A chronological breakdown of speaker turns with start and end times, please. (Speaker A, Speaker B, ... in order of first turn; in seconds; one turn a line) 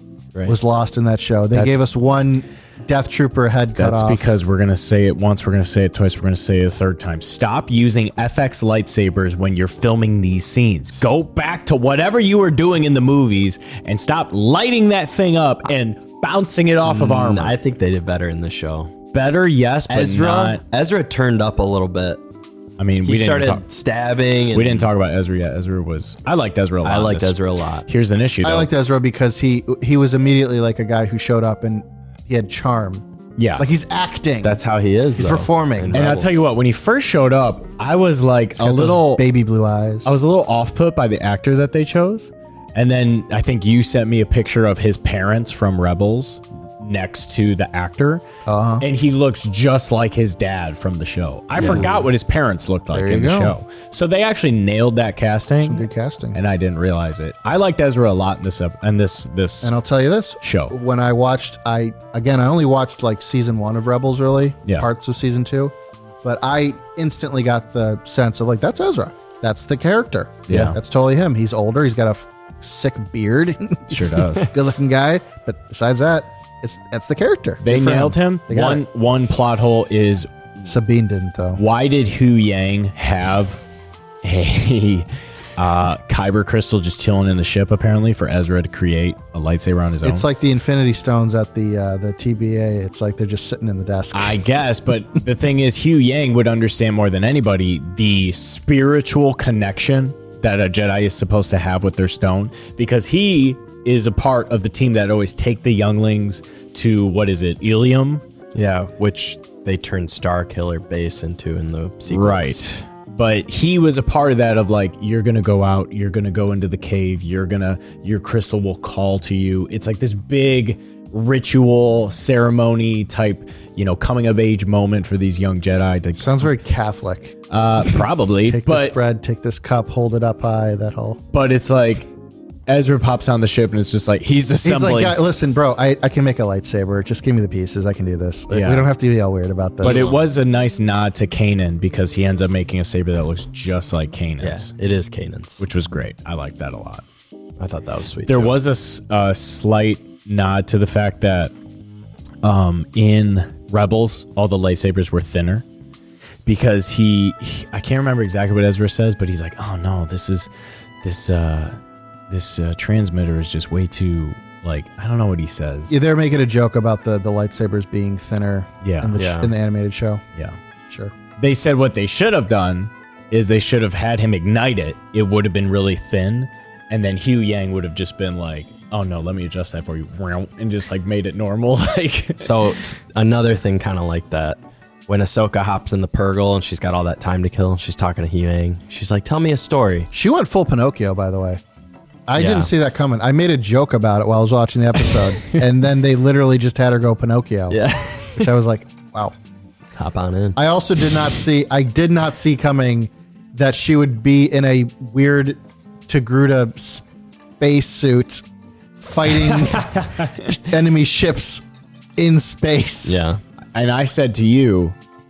Speaker A: 0.5-4.4
Speaker B: 1.5-1.8
Speaker B: 3.8-17.6
Speaker C: 16.8-18.9
Speaker B: 19.1-20.6
Speaker C: 19.9-22.2
Speaker B: 22.8-23.6
Speaker C: 23.0-24.9
Speaker B: 24.5-27.4
Speaker C: 26.8-27.9
Speaker B: 27.9-28.7
Speaker A: 28.4-33.0
Speaker B: 33.4-33.7
Speaker A: 33.6-34.6
Speaker C: 34.4-36.5
Speaker A: 35.1-36.1
Speaker B: 35.9-39.2
Speaker A: 38.6-40.2
Speaker B: 40.0-48.2
Speaker A: 48.5-48.9
Speaker B: 48.8-59.7
Speaker A: 51.6-51.9
Speaker A: 52.9-53.6
Speaker A: 55.6-56.4
Speaker A: 59.6-78.8
Speaker B: 60.4-60.7
Speaker B: 70.5-70.8
Speaker B: 73.9-74.5
Speaker B: 77.6-80.5
Speaker A: 80.6-81.6
Speaker B: 81.5-83.6
Speaker B: 84.2-90.2
Speaker A: 90.0-94.4
Speaker B: 94.1-108.2
Speaker C: 108.5-112.8
Speaker B: 112.1-126.5
Speaker A: 126.2-127.3
Speaker B: 127.5-128.9
Speaker A: 127.9-131.2
Speaker B: 131.3-132.1
Speaker B: 132.7-135.2
Speaker A: 134.6-140.1
Speaker B: 138.5-138.9
Speaker B: 139.8-144.7
Speaker C: 139.8-140.2
Speaker C: 144.4-145.6
Speaker B: 145.6-147.0
Speaker C: 147.6-148.6
Speaker B: 148.3-151.5
Speaker B: 152.4-155.6
Speaker B: 156.4-160.5
Speaker B: 161.0-165.9
Speaker A: 165.9-170.2
Speaker B: 168.8-169.1
Speaker C: 169.1-169.5
Speaker A: 170.9-171.1
Speaker B: 171.4-182.8
Speaker C: 182.4-190.1
Speaker A: 190.1-191.6
Speaker A: 192.3-199.3
Speaker C: 192.4-192.7
Speaker C: 197.7-198.5
Speaker C: 199.9-200.6
Speaker A: 200.6-207.0
Speaker A: 207.6-208.4
Speaker A: 209.0-211.6
Speaker B: 209.5-210.5
Speaker A: 212.2-213.2
Speaker C: 213.0-213.4
Speaker B: 213.7-214.9